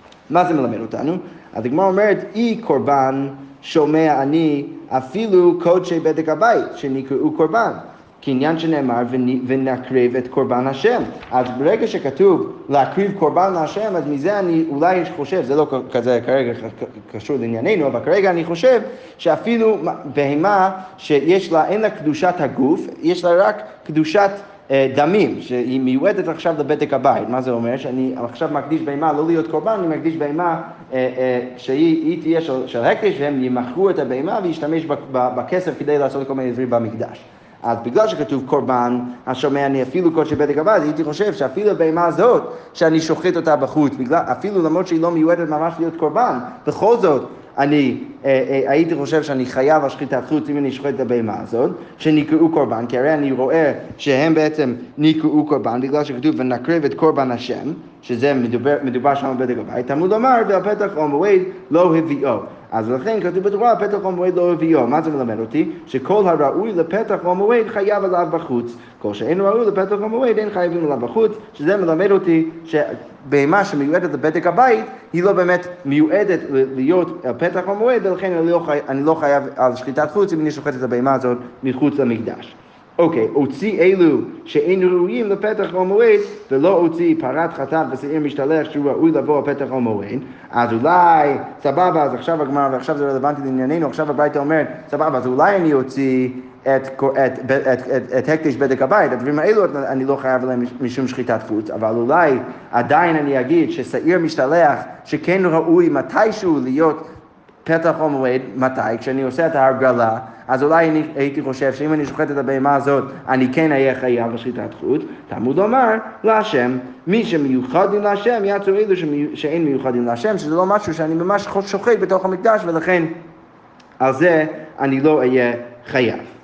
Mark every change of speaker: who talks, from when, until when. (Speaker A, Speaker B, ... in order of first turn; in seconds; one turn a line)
Speaker A: 0.3-107.0
Speaker A: 107.6-123.2
Speaker A: 124.0-126.3